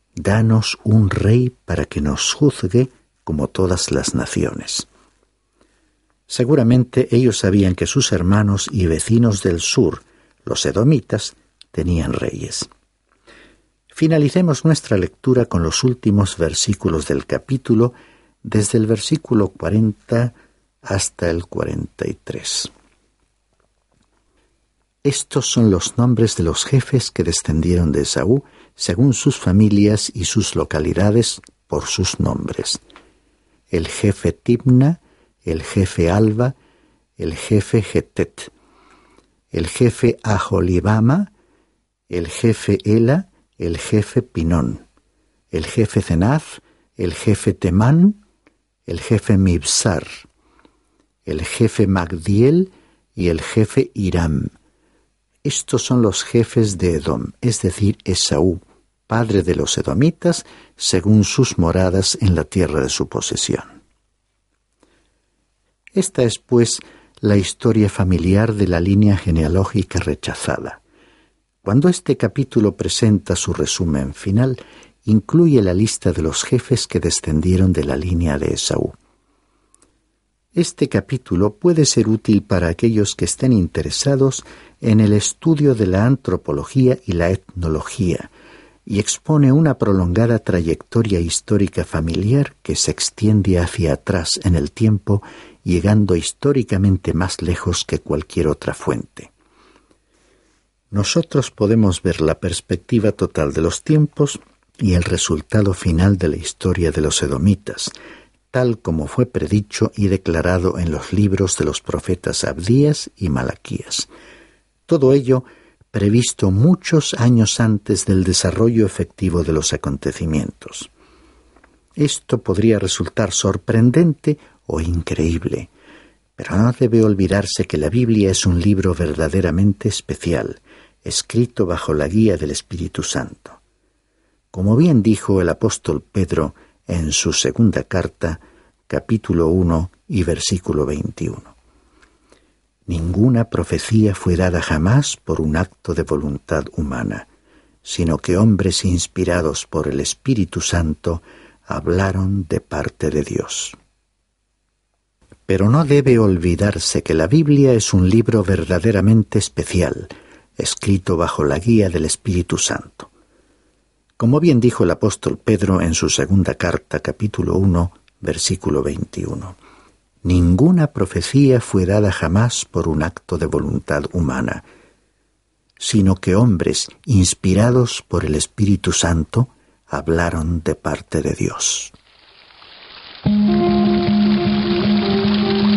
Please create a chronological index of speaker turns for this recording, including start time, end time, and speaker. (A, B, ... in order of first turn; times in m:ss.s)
0:00.2-0:04.9 A
0:06.3-0:12.7 A
0:13.9-0:22.7 A
0:25.0-0:32.8 A
0:33.7-0:36.6 A
0:37.2-0:38.5 A
0:39.5-0:41.3 A
0:42.1-0:44.8 A
0:45.5-0:48.2 A
0:48.9-0:50.3 A
0:51.3-0:54.5 A
0:55.4-1:03.8 A
1:05.9-1:10.8 A
1:11.6-1:19.0 A
1:20.6-1:28.3 A
1:28.9-1:39.3 A
1:40.9-1:47.9 A
1:48.5-1:54.1 A
1:54.9-2:00.9 A
2:02.0-2:05.7 A
2:06.4-2:13.6 A
2:14.5-2:21.5 A
2:22.9-2:27.3 A
2:27.8-2:33.8 A
2:35.5-2:43.1 A
2:44.2-2:49.6 A
2:50.2-2:54.6 A
2:55.8-3:01.9 A